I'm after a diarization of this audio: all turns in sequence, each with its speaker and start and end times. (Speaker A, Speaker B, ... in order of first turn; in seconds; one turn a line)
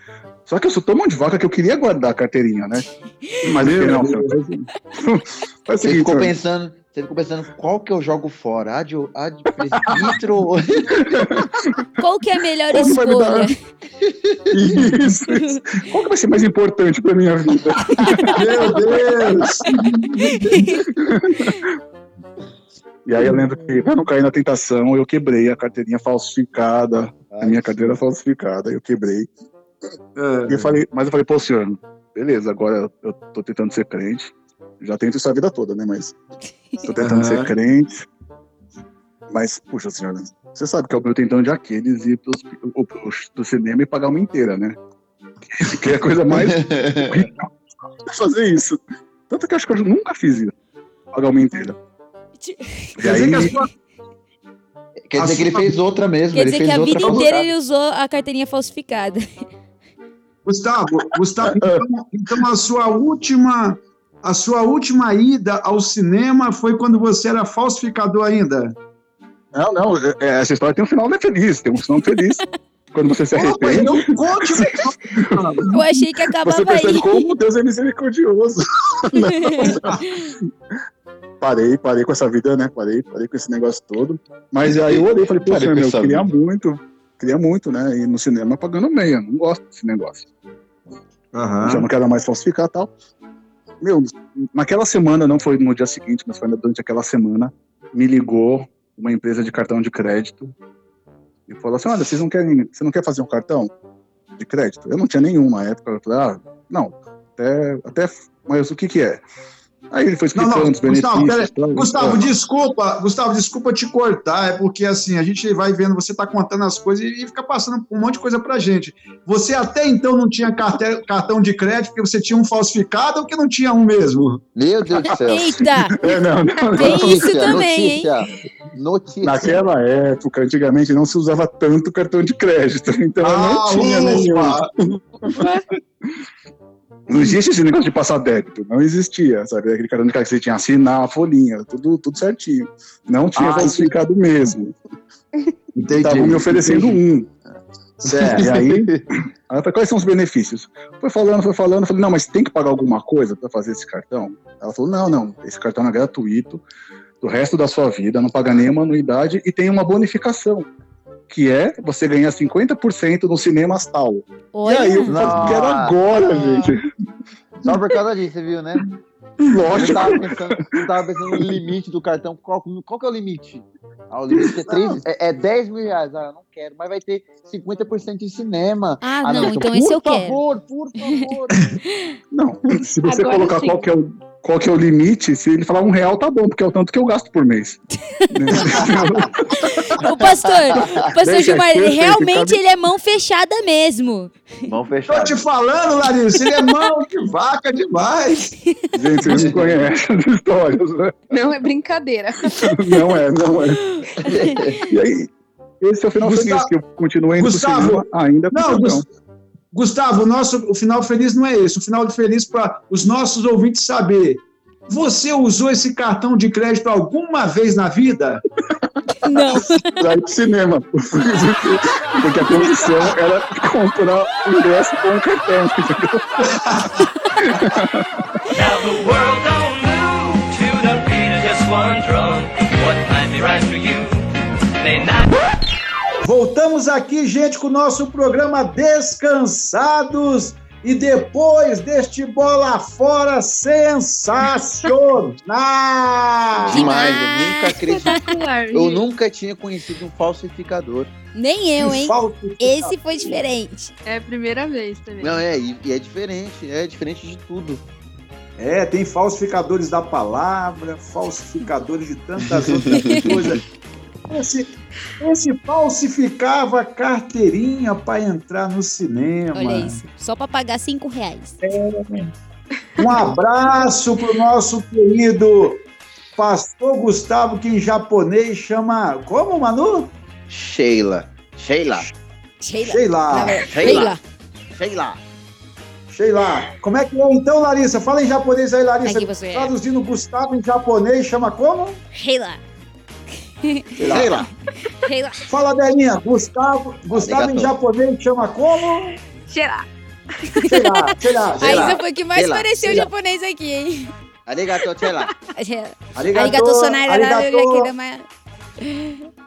Speaker A: 0.5-2.9
Speaker A: 3.4-4.4
Speaker B: 3.6-4.7
Speaker A: 5.0-6.3
Speaker C: 5.8-11.2
Speaker A: 10.9-11.5
Speaker D: 12.0-13.5
Speaker A: 12.7-13.5
Speaker C: 14.1-14.4
Speaker A: 14.5-19.9
Speaker D: 15.3-15.6
Speaker B: 18.3-20.6
Speaker D: 20.3-20.8
Speaker A: 20.9-21.6
Speaker A: 23.0-29.3
Speaker C: 27.3-27.7
Speaker B: 30.1-30.8
Speaker A: 30.5-36.2
Speaker A: 36.8-37.9
Speaker B: 37.0-37.5
Speaker A: 39.3-44.8
Speaker A: 45.6-47.5
Speaker C: 46.3-47.2
Speaker A: 48.1-50.5
Speaker A: 51.1-51.8
Speaker D: 52.4-53.0
Speaker A: 53.0-53.5
Speaker B: 53.0-53.7
Speaker C: 55.0-57.5
Speaker B: 55.1-55.8
Speaker D: 56.3-59.2
Speaker B: 57.0-57.2
Speaker B: 60.4-68.7
Speaker A: 61.4-61.8
Speaker A: 69.5-75.6
Speaker B: 73.3-75.7
Speaker D: 75.7-77.3
Speaker A: 76.4-80.1
Speaker D: 79.2-80.2
Speaker A: 81.4-90.3
Speaker C: 84.7-86.3
Speaker B: 91.3-91.8
Speaker A: 91.6-92.9
Speaker A: 93.8-100.5
Speaker A: 101.5-103.7
Speaker A: 104.4-109.2
Speaker A: 109.9-112.2
Speaker B: 110.3-124.4
Speaker C: 124.5-125.6
Speaker D: 125.0-126.1
Speaker A: 126.0-127.6
Speaker D: 126.7-128.1
Speaker C: 126.8-129.6
Speaker A: 129.2-135.4
Speaker B: 133.2-134.7
Speaker E: 135.3-135.6
Speaker A: 137.1-144.7
Speaker B: 143.4-143.9
Speaker B: 145.7-146.9
Speaker A: 145.9-147.3
Speaker B: 148.0-149.0
Speaker C: 148.0-149.0
Speaker A: 148.4-148.9
Speaker A: 149.5-156.6
Speaker A: 157.2-160.7
Speaker A: 161.3-166.8
Speaker D: 164.5-165.2
Speaker C: 165.1-166.8
Speaker B: 165.2-165.6
Speaker C: 167.6-168.9
Speaker A: 169.5-170.8
Speaker C: 169.6-181.7
Speaker B: 169.7-170.0
Speaker B: 174.3-175.0
Speaker D: 179.0-180.4
Speaker D: 181.0-181.3
Speaker A: 182.3-187.8
Speaker E: 183.0-183.8
Speaker A: 188.3-189.7
Speaker D: 189.9-194.4
Speaker A: 191.2-192.6
Speaker C: 194.6-195.4
Speaker B: 195.1-198.5
Speaker A: 198.9-201.2
Speaker B: 199.2-199.6
Speaker C: 199.3-199.6
Speaker E: 201.3-202.7
Speaker A: 202.6-203.9
Speaker D: 204.0-204.6
Speaker C: 204.2-204.8
Speaker A: 204.9-209.0
Speaker B: 206.2-206.7
Speaker B: 207.4-209.0
Speaker B: 209.7-218.4
Speaker D: 219.2-219.8
Speaker A: 219.3-228.1
Speaker B: 222.4-222.9
Speaker B: 236.2-246.9
Speaker D: 246.7-248.2
Speaker C: 246.7-248.2
Speaker E: 247.7-249.1
Speaker C: 248.7-251.1
Speaker D: 251.3-253.9
Speaker B: 251.8-253.4
Speaker E: 254.1-255.4
Speaker C: 255.2-257.8
Speaker B: 258.6-263.6
Speaker C: 262.4-263.4
Speaker D: 262.9-263.4
Speaker B: 264.3-270.0
Speaker D: 269.5-271.6
Speaker B: 271.6-272.3
Speaker B: 273.0-275.8
Speaker B: 276.4-280.1
Speaker C: 280.5-282.1
Speaker D: 282.6-284.2
Speaker B: 282.9-284.1
Speaker C: 283.7-284.2
Speaker C: 284.7-285.2
Speaker B: 286.1-292.0
Speaker D: 289.0-289.7
Speaker D: 292.1-292.6
Speaker D: 293.6-294.2
Speaker B: 294.0-294.4
Speaker C: 294.0-294.5
Speaker D: 295.1-295.4
Speaker B: 295.5-299.1
Speaker C: 297.1-297.7
Speaker E: 299.5-299.9
Speaker B: 300.6-302.0
Speaker C: 301.6-303.1
Speaker D: 301.6-304.1
Speaker C: 304.5-305.3
Speaker D: 305.6-308.2
Speaker B: 306.1-307.9
Speaker D: 308.8-309.2